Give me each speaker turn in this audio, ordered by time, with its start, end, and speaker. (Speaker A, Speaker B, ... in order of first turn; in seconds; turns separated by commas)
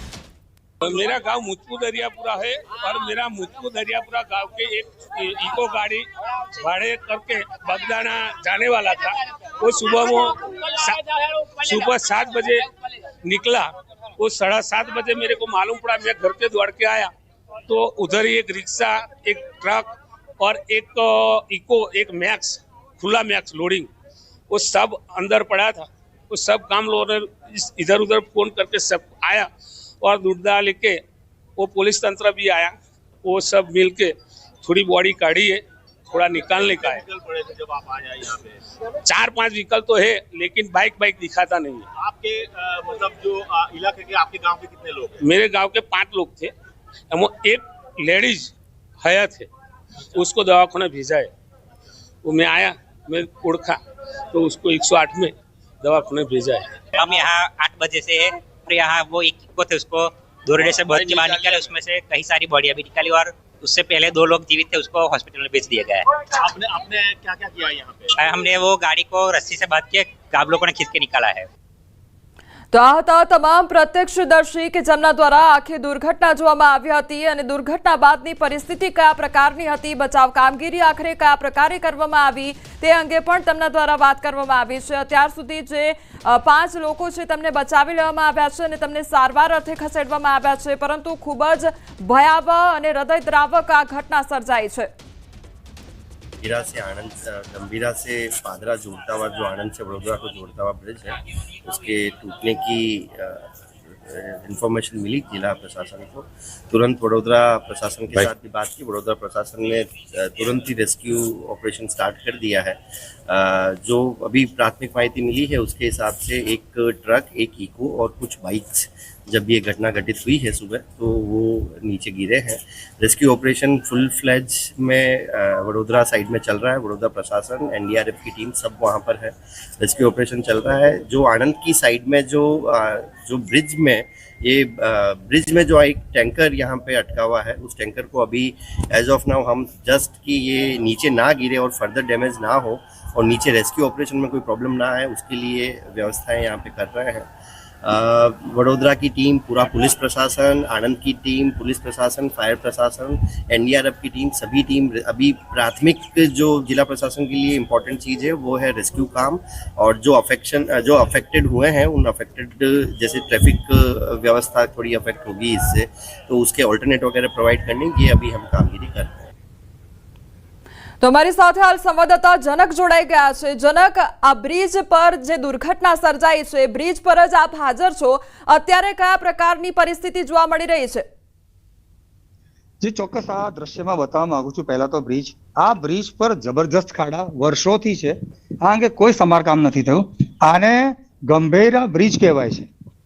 Speaker A: 0.8-12.7, Speaker A: 13.2-17.1, Speaker A: 17.7-23.9, Speaker A: 24.5-29.5, Speaker A: 30.0-31.0, Speaker A: 31.6-37.1, Speaker B: 36.5-38.5, Speaker A: 39.0-41.8, Speaker B: 42.0-45.2, Speaker A: 45.2-46.5, Speaker A: 47.1-49.5, Speaker A: 50.1-51.3, Speaker A: 52.2-56.9, Speaker C: 56.9-66.0, Speaker B: 60.6-61.7, Speaker B: 66.4-68.2, Speaker C: 68.1-71.5, Speaker D: 72.7-94.9, Speaker E: 96.4-101.1, Speaker E: 101.7-103.4, Speaker E: 104.0-147.3, Speaker E: 147.8-169.3, Speaker D: 171.0-181.0, Speaker F: 182.8-192.7